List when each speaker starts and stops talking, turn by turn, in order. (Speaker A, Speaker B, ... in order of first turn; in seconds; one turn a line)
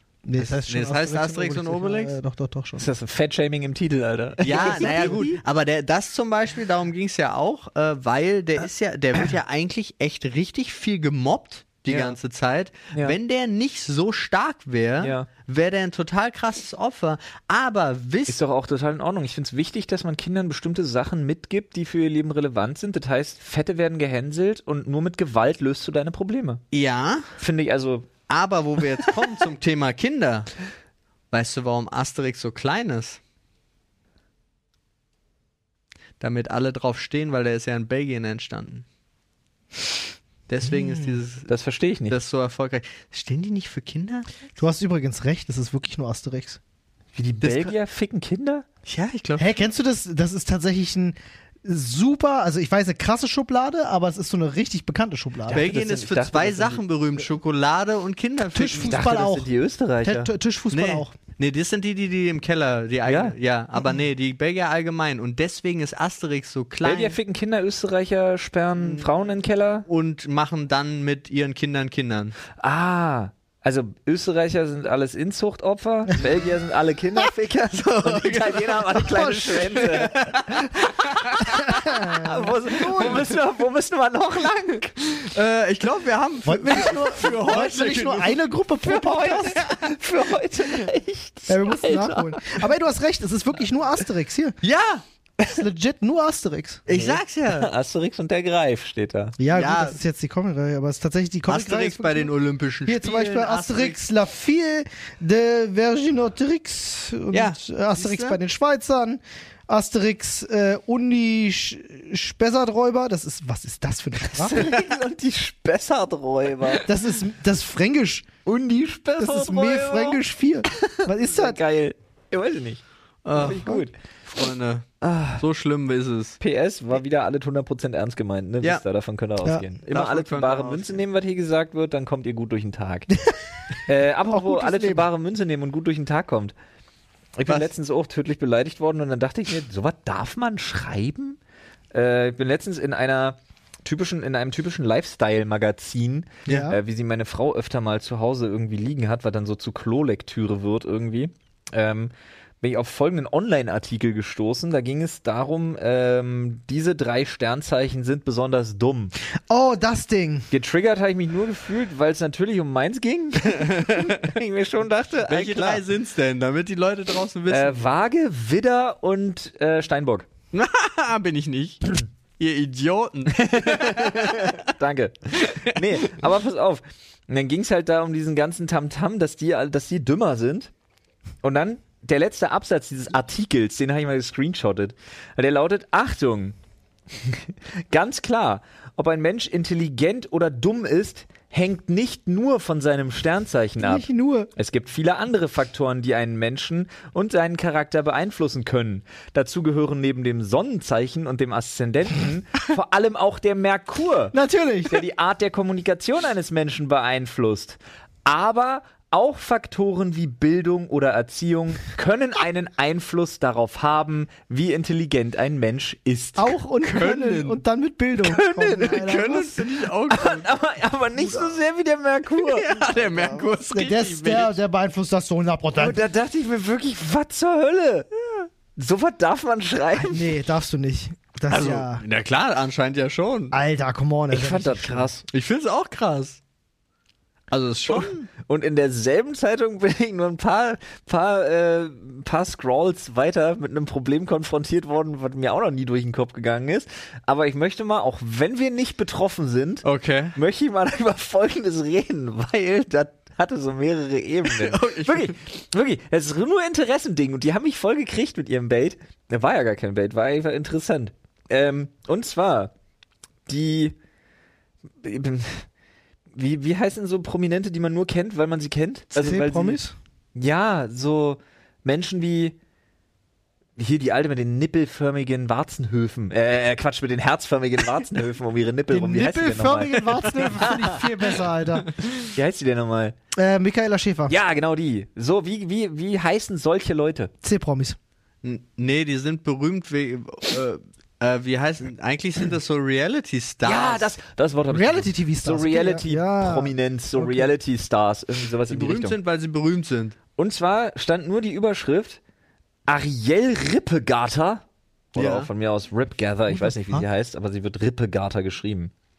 Speaker A: 0.2-2.9
Speaker B: 0.4-2.1
Speaker C: 2.8-5.4
Speaker B: 4.4-18.4
Speaker A: 4.6-5.2
Speaker C: 11.9-12.2
Speaker C: 15.0-15.3
Speaker C: 18.3-26.6
Speaker B: 26.7-27.3
Speaker C: 27.4-28.1
Speaker B: 28.3-30.5
Speaker B: 31.3-33.2
Speaker B: 36.2-38.9
Speaker B: 40.5-41.5
Speaker A: 40.7-41.1
Speaker C: 41.5-42.2
Speaker B: 42.1-44.3
Speaker A: 44.6-46.6
Speaker C: 47.1-48.7
Speaker B: 47.4-47.7
Speaker B: 48.9-49.5
Speaker A: 49.4-55.6
Speaker C: 55.5-56.8
Speaker B: 55.5-59.0
Speaker A: 58.5-59.5
Speaker C: 58.7-60.3
Speaker A: 60.0-61.1
Speaker B: 60.7-67.2
Speaker C: 63.1-63.4
Speaker C: 66.8-69.8
Speaker B: 68.8-69.1
Speaker B: 69.9-72.4
Speaker C: 72.6-85.0
Speaker B: 77.7-81.4
Speaker A: 79.0-80.1
Speaker A: 81.5-83.2
Speaker B: 83.0-83.2
Speaker B: 85.0-88.4
Speaker A: 86.5-89.7
Speaker C: 88.8-92.6
Speaker A: 91.5-94.6
Speaker B: 94.6-95.0
Speaker A: 95.5-96.9
Speaker B: 96.9-97.7
Speaker C: 96.9-99.4
Speaker A: 99.4-102.3
Speaker B: 99.5-100.0
Speaker B: 101.5-104.0
Speaker A: 102.9-114.7
Speaker B: 107.3-108.4
Speaker C: 114.3-116.9
Speaker A: 116.9-118.3
Speaker C: 118.5-122.8
Speaker A: 119.2-121.6
Speaker B: 123.2-124.9
Speaker C: 123.3-123.9
Speaker A: 123.5-123.8
Speaker C: 125.0-125.4
Speaker B: 125.4-126.4
Speaker C: 126.4-133.1
Speaker B: 129.9-131.0
Speaker C: 133.8-136.5
Speaker A: 134.3-135.1
Speaker C: 137.4-141.4
Speaker C: 141.9-159.1
Speaker A: 146.5-146.8
Speaker A: 159.5-160.5
Speaker C: 160.5-165.8
Speaker B: 163.4-164.3
Speaker B: 165.2-167.9
Speaker C: 167.5-170.3
Speaker B: 170.5-174.7
Speaker C: 173.3-180.7
Speaker B: 175.7-176.0
Speaker C: 181.4-186.6
Speaker C: 187.2-204.3
Speaker A: 193.8-194.5
Speaker A: 204.3-205.0
Speaker C: 204.9-216.6
Speaker A: 216.4-219.7
Speaker B: 216.8-217.6
Speaker C: 218.2-219.1
Speaker B: 218.8-220.5
Speaker C: 220.1-222.8
Speaker B: 222.4-224.6
Speaker A: 223.1-226.0
Speaker C: 225.7-228.1
Speaker C: 228.8-230.3
Speaker A: 230.0-232.0
Speaker B: 231.5-233.6
Speaker A: 233.5-235.1
Speaker C: 234.3-235.2
Speaker B: 235.3-236.4
Speaker B: 237.5-238.2
Speaker C: 237.9-262.7
Speaker B: 249.8-250.4
Speaker B: 254.5-255.3
Speaker C: 263.5-263.9
Speaker C: 265.0-265.7
Speaker C: 266.4-269.8
Speaker A: 269.1-269.9
Speaker C: 270.4-272.6
Speaker C: 273.8-281.0
Speaker A: 278.9-281.9
Speaker C: 282.2-283.1
Speaker A: 283.3-284.4
Speaker C: 284.3-287.3
Speaker A: 287.4-288.0
Speaker B: 288.4-294.1
Speaker C: 293.6-299.2
Speaker A: 294.7-297.5
Speaker B: 298.7-300.2
Speaker C: 300.4-302.2
Speaker C: 302.9-308.9
Speaker B: 305.1-305.5
Speaker A: 306.5-307.1